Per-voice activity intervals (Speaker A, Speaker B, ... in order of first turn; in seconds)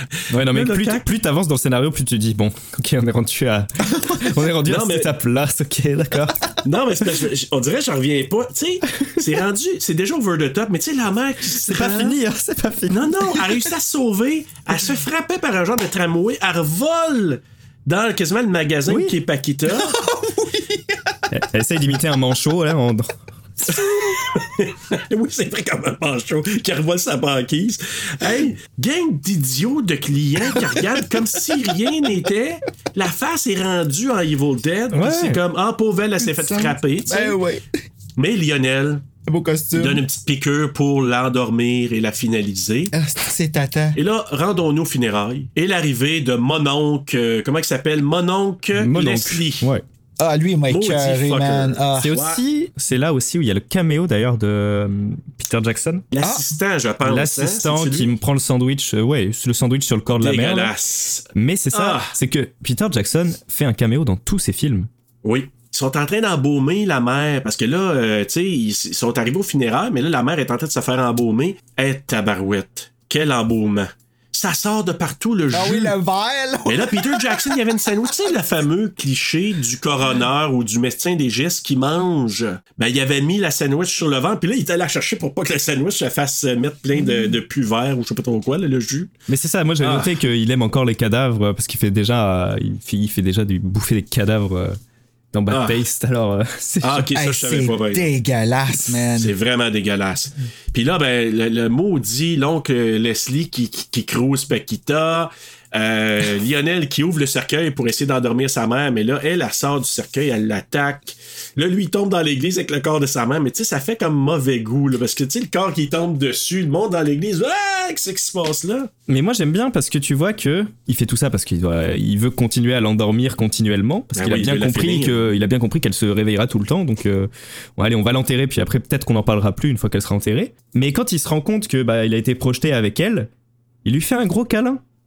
Speaker A: 0.3-6.5, 11.7-13.6, 18.9-19.1, 21.3-23.1, 34.9-35.4, 48.8-49.8, 52.0-56.0, 57.0-60.7, 61.3-64.9, 89.3-94.8, 95.3-97.0, 119.1-133.3, 133.8-134.8
Speaker B: 0.5-1.0, 4.7-5.1, 6.6-12.1, 12.9-19.9, 24.3-37.4, 38.2-39.0, 39.7-42.9, 44.0-49.6, 50.7-52.4, 56.1-58.1, 60.2-62.1, 65.2-75.9, 76.7-89.1, 89.8-90.1, 95.5-95.8, 96.8-98.1, 99.1-118.9, 124.1-125.2
Speaker C: 3.9-4.2, 19.7-21.1, 36.2-37.6, 39.2-40.0, 42.9-44.0, 50.2-52.1, 75.5-77.7, 97.1-99.3